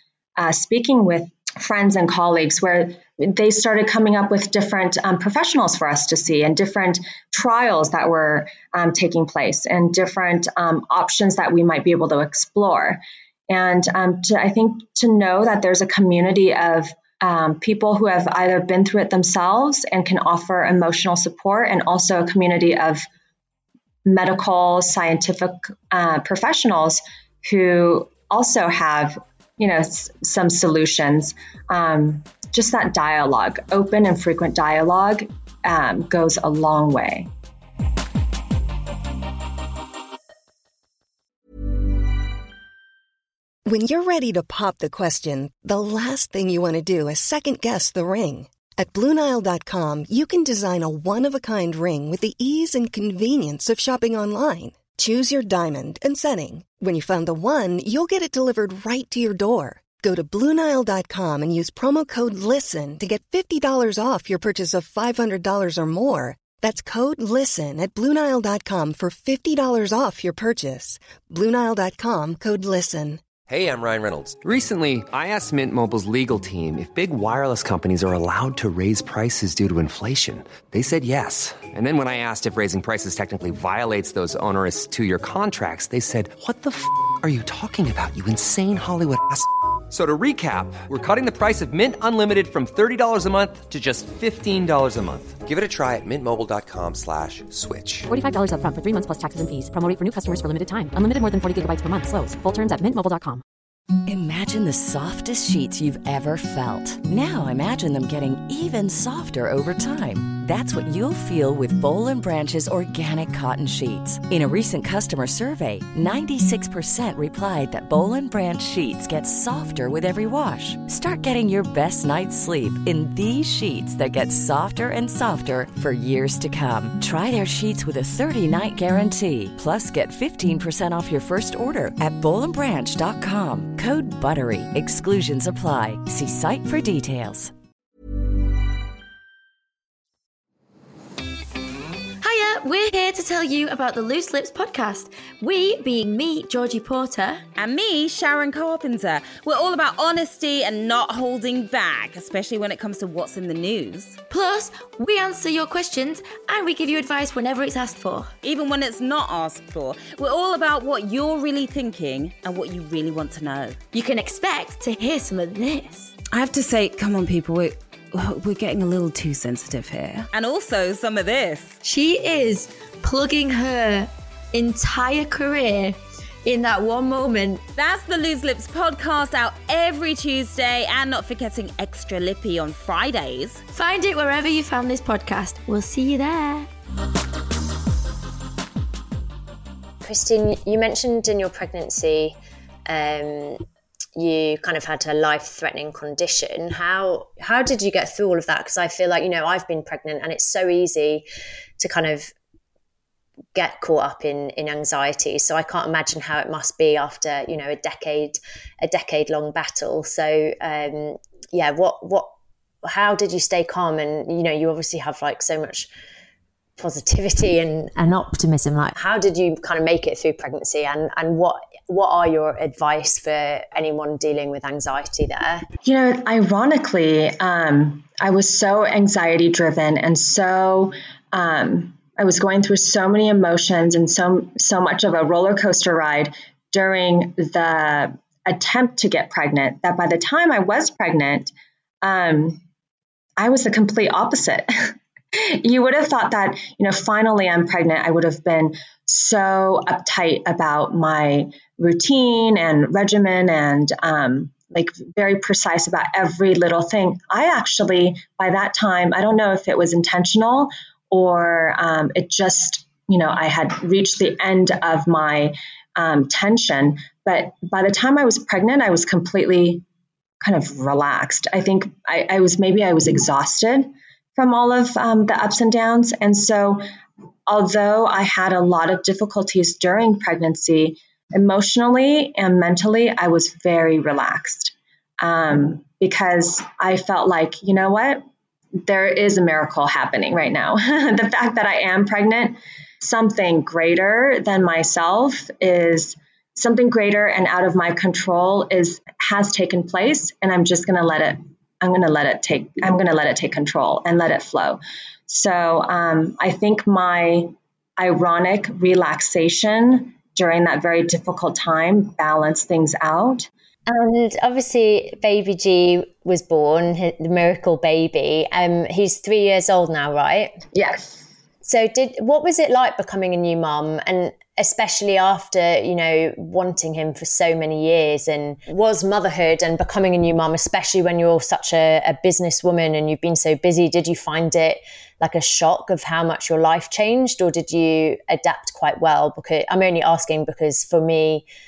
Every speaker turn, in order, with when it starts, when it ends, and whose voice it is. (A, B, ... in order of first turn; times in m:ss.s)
0:00.4-0:23.0 A
0:24.0-0:37.3 A
0:43.6-1:13.2 B
1:13.4-1:38.1 C
1:38.1-1:43.4 D
1:44.0-2:17.5 E
2:22.2-2:27.4 F
2:27.6-2:34.2 G
2:34.3-2:38.3 F
2:38.4-2:43.8 G
2:43.9-2:46.1 F
2:46.3-2:51.8 G
2:51.8-2:57.6 F
2:57.8-3:03.6 G
3:03.7-3:06.7 F
3:10.0-3:12.3 H
3:12.9-3:13.6 H
3:14.2-3:21.2 H
3:21.8-3:22.3 H
3:23.5-3:32.3 H
3:32.8-3:35.9 H
3:36.8-3:45.6 H
3:45.8-4:02.6 A
4:03.4-4:29.8 A
4:30.4-4:36.8 A
4:37.5-4:48.2 A
4:48.8-5:13.5 A
5:13.9-5:20.5 H
5:20.7-5:21.2 A
5:21.6-5:41.4 H